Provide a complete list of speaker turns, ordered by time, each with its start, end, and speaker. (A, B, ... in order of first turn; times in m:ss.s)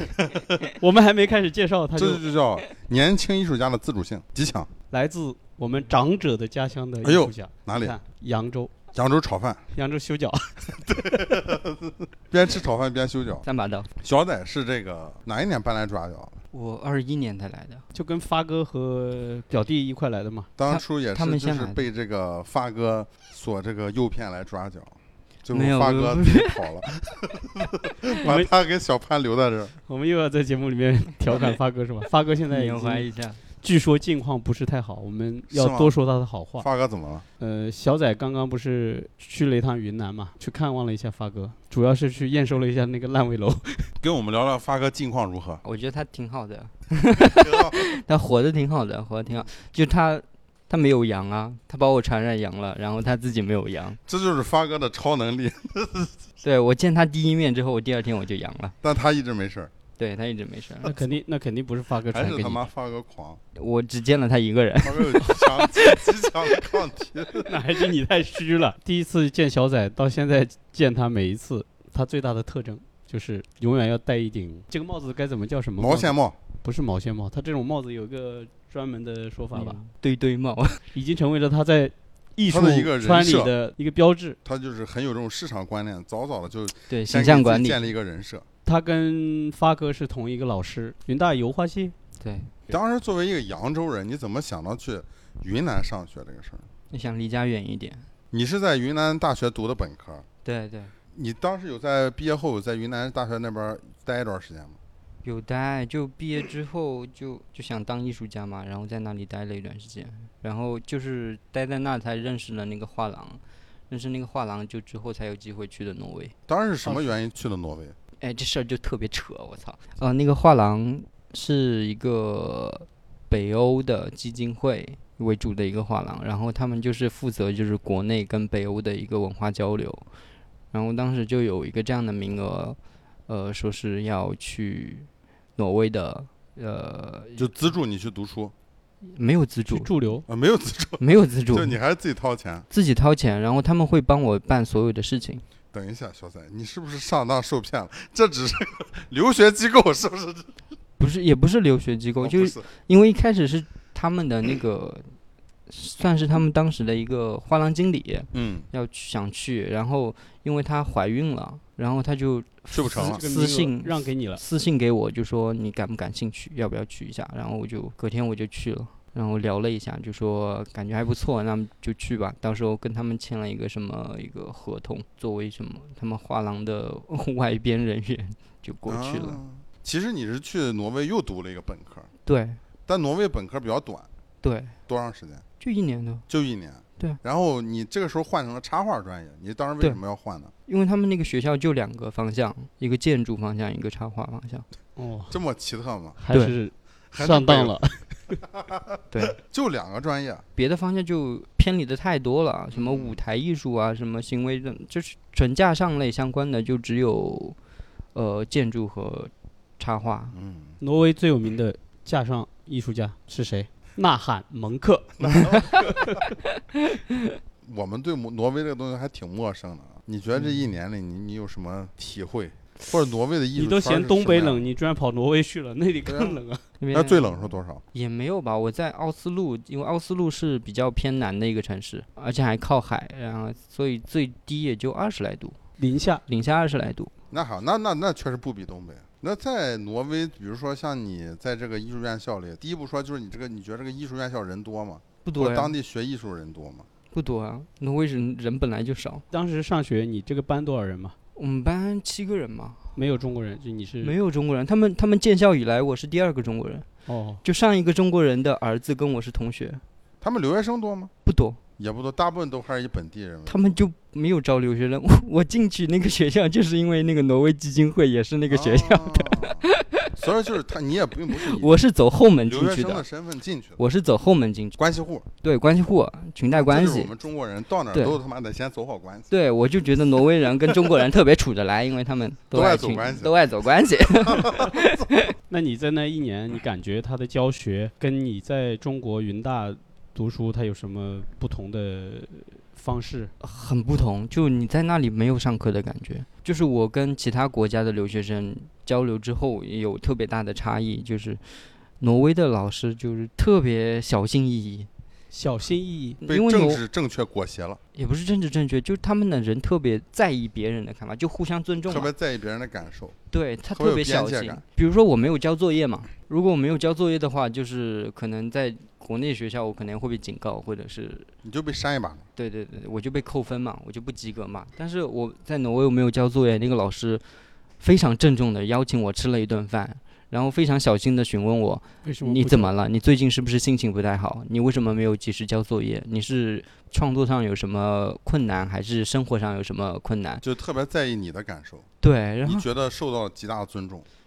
0:00.8-0:02.2 A
0:02.0-0:04.7 B
0:04.9-0:08.7 A
0:07.0-0:08.0 B
0:08.9-0:09.6 B
0:09.8-0:11.4 A
0:10.8-0:13.4 B
0:13.4-0:13.9 C
0:14.0-0:16.4 B
0:16.5-0:17.8 C
0:17.9-0:20.5 A
0:20.6-0:29.8 B
0:20.7-0:21.8 C
0:25.5-0:26.6 C
0:28.2-0:28.5 A
0:29.9-0:33.1 A
0:32.5-0:33.4 C
0:33.6-0:36.7 A
0:35.5-0:36.0 B
0:36.6-0:37.2 B
0:37.4-0:43.9 A
0:44.0-0:45.6 B
0:45.6-0:54.0 C
0:47.4-0:47.8 B
0:54.1-0:56.2 B
0:56.4-0:58.7 C
0:58.8-0:59.7 B
1:00.0-1:01.0 C
1:00.8-1:02.6 A
1:02.1-1:03.4 B
1:03.6-1:06.0 C
1:04.8-1:07.5 B
1:07.5-1:19.8 A
1:15.8-1:16.4 B
1:19.5-1:20.8 C
1:20.9-1:24.4 A
1:22.5-1:23.5 B
1:24.4-1:28.4 B
1:26.9-1:27.8 C
1:28.7-1:32.0 A
1:32.2-1:32.5 C
1:32.7-1:36.7 B
1:36.9-1:38.1 C
1:38.3-1:40.3 B
1:40.4-1:40.9 C
1:41.1-1:44.8 B
1:45.2-1:56.3 C
1:56.5-1:58.0 B
1:58.2-2:10.0 C
2:10.7-2:17.5 C
2:17.4-2:18.5 B
2:19.1-2:19.9 C
2:19.7-2:20.2 A
2:20.3-2:22.7 B
2:21.0-2:21.8 C
2:22.7-2:25.4 C
2:25.7-2:30.6 B
2:31.0-2:35.1 C
2:32.2-2:32.7 B
2:35.7-2:59.4 C
2:38.3-2:38.7 B
2:42.7-2:43.2 B
2:43.0-2:44.4 A
2:58.9-3:02.1 B
3:02.3-3:02.6 C
3:02.9-3:04.1 B
3:04.4-3:04.7 C
3:04.9-3:05.4 B
3:05.6-3:06.2 C
3:06.3-3:10.5 B
3:10.7-3:14.7 C
3:15.0-3:15.4 A
3:15.3-3:16.2 B
3:16.2-3:18.4 A
3:16.3-3:16.6 C
3:17.1-3:17.8 B
3:18.5-3:20.4 B
3:19.1-3:19.4 C
3:20.6-3:27.6 C
3:22.7-3:23.2 B
3:28.1-3:30.4 C
3:30.3-3:30.8 B
3:30.8-3:36.2 A
3:35.2-3:35.9 B
3:36.7-3:37.3 C
3:37.6-3:44.7 B
3:43.6-3:46.6 A
3:46.1-3:46.4 B
3:46.8-3:47.4 C
3:46.9-3:47.8 B
3:47.9-3:55.6 C
3:55.8-3:56.2 A
3:56.3-3:57.1 C
3:57.3-4:06.9 B
4:05.2-4:05.7 C
4:07.1-4:09.2 C
4:09.3-4:11.2 A
4:11.4-4:12.9 C
4:13.0-4:14.1 A
4:14.0-4:16.9 C
4:17.1-4:17.4 A
4:17.4-4:19.8 C
4:20.2-4:21.1 B
4:21.2-4:21.6 C
4:21.8-4:23.8 B
4:23.5-4:30.1 C
4:28.5-4:29.6 B
4:30.2-4:31.8 B
4:31.5-4:33.0 C
4:32.5-4:33.8 B
4:33.8-4:34.8 C
4:34.8-4:35.3 B
4:35.4-4:37.1 C
4:36.5-4:39.3 B
4:37.9-4:38.2 C
4:39.3-4:45.3 C
4:42.5-4:43.3 B
4:44.3-4:45.0 B
4:45.5-4:53.3 A
4:53.4-5:01.4 C
5:02.0-5:04.9 C
5:05.3-5:06.2 A
5:06.2-5:06.8 C
5:06.3-5:07.8 B
5:08.0-5:12.1 C
5:11.9-5:13.2 B
5:13.3-5:21.3 C
5:13.7-5:14.6 B
5:21.4-5:22.3 B
5:22.4-5:27.2 C
5:27.8-5:40.4 C
5:32.0-5:32.7 A
5:40.4-5:41.9 B
5:42.0-5:42.6 C
5:42.4-5:44.1 B